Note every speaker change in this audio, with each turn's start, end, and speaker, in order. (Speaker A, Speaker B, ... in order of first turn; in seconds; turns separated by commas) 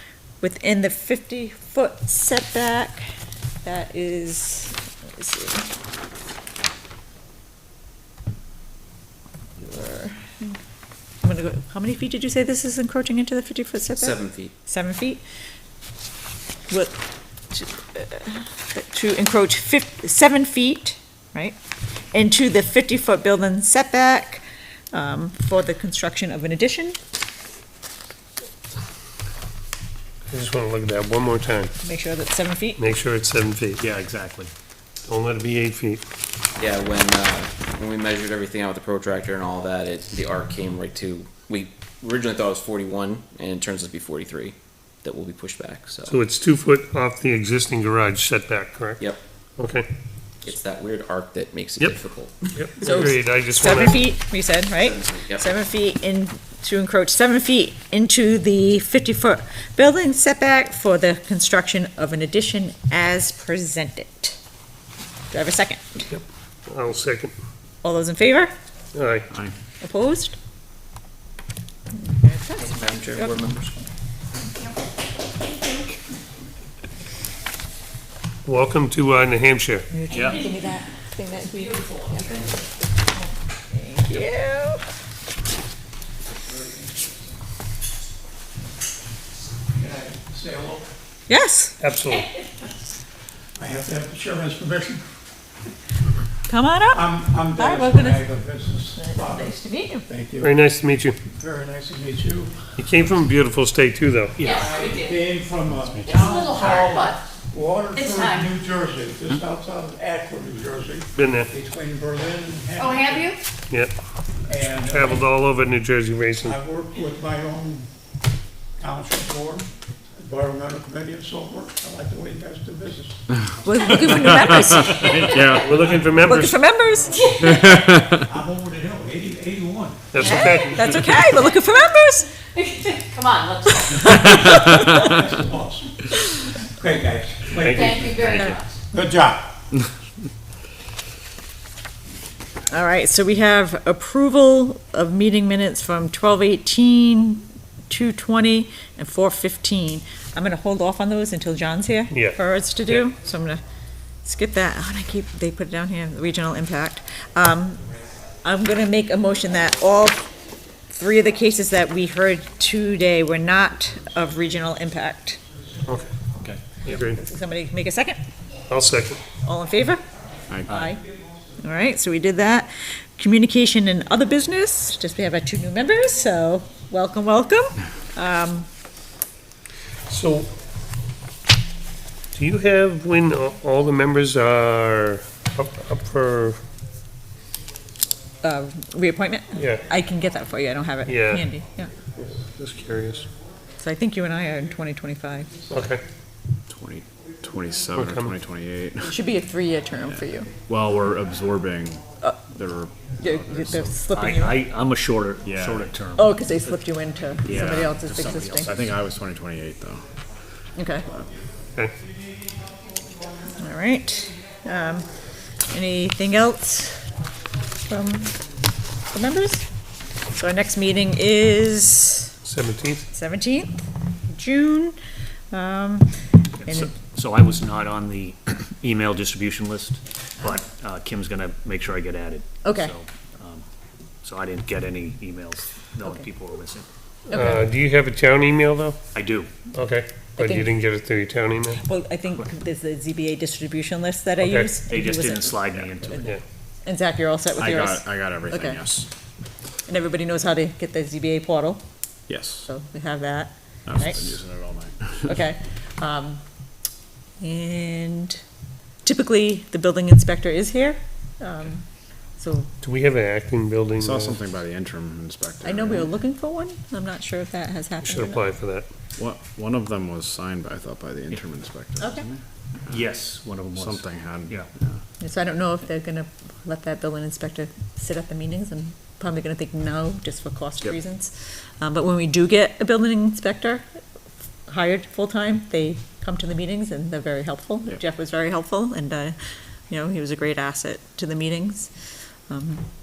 Speaker A: 0.4-3.0, Speaker A: 3.6-5.7, Speaker A: 9.6-10.6, Speaker A: 11.2-15.2, Speaker B: 13.9-14.5, Speaker A: 16.7-16.9, Speaker A: 17.5-21.6, Speaker A: 22.1-27.0, Speaker C: 30.3-31.7, Speaker A: 31.8-32.8, Speaker C: 32.8-33.8, Speaker D: 33.8-34.5, Speaker C: 35.1-36.0, Speaker B: 36.6-46.2, Speaker C: 46.1-49.0, Speaker C: 49.6-49.9, Speaker B: 50.4-52.7, Speaker C: 52.5-54.1, Speaker A: 52.8-64.4, Speaker B: 54.8-55.5, Speaker A: 65.3-66.1, Speaker C: 66.1-67.3, Speaker A: 67.8-68.5, Speaker C: 68.9-69.3, Speaker A: 69.8-70.4, Speaker A: 71.9-73.4, Speaker B: 72.6-73.8, Speaker C: 78.4-79.9, Speaker A: 79.9-82.6, Speaker D: 80.1-80.4, Speaker A: 83.2-84.8, Speaker E: 86.4-87.2, Speaker E: 89.7-90.9, Speaker A: 91.3-91.8, Speaker C: 91.8-92.3, Speaker F: 92.1-92.7, Speaker E: 93.6-95.0, Speaker A: 96.5-98.3, Speaker E: 96.9-99.5, Speaker A: 98.9-100.1, Speaker E: 100.1-100.5, Speaker C: 100.4-101.2, Speaker E: 101.3-102.5, Speaker C: 102.8-104.5, Speaker D: 104.4-104.7, Speaker F: 104.4-105.3, Speaker E: 104.5-113.3, Speaker F: 105.9-107.2, Speaker F: 107.9-108.5, Speaker C: 111.1-111.5, Speaker F: 112.8-113.4, Speaker E: 114.4-115.2, Speaker C: 114.8-116.6, Speaker E: 116.4-117.9, Speaker E: 118.8-123.2, Speaker A: 123.6-127.3, Speaker G: 124.1-125.9, Speaker C: 125.5-126.6, Speaker E: 125.8-126.1, Speaker E: 126.9-130.7, Speaker F: 127.1-127.5, Speaker G: 127.4-128.2, Speaker C: 130.1-131.1, Speaker A: 130.2-132.3, Speaker F: 132.5-134.3, Speaker A: 133.8-135.2, Speaker E: 134.1-136.1, Speaker E: 136.8-139.5, Speaker C: 137.5-137.9, Speaker F: 137.7-138.8, Speaker A: 142.7-153.6, Speaker C: 152.1-153.0, Speaker A: 154.2-157.8, Speaker A: 158.4-160.2, Speaker A: 160.9-165.4, Speaker C: 166.8-167.2, Speaker A: 166.8-168.2, Speaker C: 168.7-169.2, Speaker A: 169.4-170.0, Speaker D: 170.7-170.9, Speaker A: 170.7-171.0, Speaker A: 171.6-178.7, Speaker C: 180.1-180.5, Speaker C: 182.3-186.6, Speaker A: 188.4-191.9, Speaker C: 189.5-189.8, Speaker C: 191.0-191.4, Speaker C: 192.2-193.3, Speaker A: 193.8-195.6, Speaker C: 195.7-196.0, Speaker G: 196.7-199.2, Speaker C: 197.9-198.3, Speaker A: 199.0-200.5, Speaker G: 200.5-203.9, Speaker A: 203.2-204.6, Speaker D: 204.1-206.8, Speaker G: 205.4-205.9, Speaker A: 206.2-208.7, Speaker D: 207.4-208.9, Speaker G: 207.4-210.1, Speaker A: 210.8-211.1, Speaker A: 213.6-215.1, Speaker A: 215.7-217.1, Speaker A: 217.8-218.4, Speaker A: 219.1-219.7, Speaker A: 220.3-222.3, Speaker C: 222.4-223.1, Speaker A: 223.1-225.0, Speaker A: 225.5-226.9, Speaker D: 226.6-233.6, Speaker A: 232.6-232.9, Speaker D: 234.2-236.9, Speaker A: 237.3-237.6, Speaker C: 237.3-239.0, Speaker D: 239.1-239.5, Speaker C: 239.7-241.8, Speaker A: 240.4-240.7, Speaker A: 241.8-248.8, Speaker C: 244.4-244.8, Speaker D: 244.9-246.3, Speaker G: 247.6-249.1, Speaker A: 249.9-251.8, Speaker G: 252.3-252.7, Speaker A: 252.7-254.4, Speaker G: 253.8-255.4, Speaker A: 255.2-256.4, Speaker A: 257.4-258.4, Speaker A: 259.0-261.8, Speaker A: 262.4-262.7, Speaker C: 262.8-264.4, Speaker G: 264.0-266.1, Speaker A: 265.6-268.5, Speaker C: 268.0-268.9, Speaker G: 269.2-273.0, Speaker D: 272.9-274.7, Speaker G: 273.7-274.9, Speaker A: 275.2-283.9, Speaker A: 284.7-289.4, Speaker A: 289.9-291.9, Speaker A: 292.5-292.8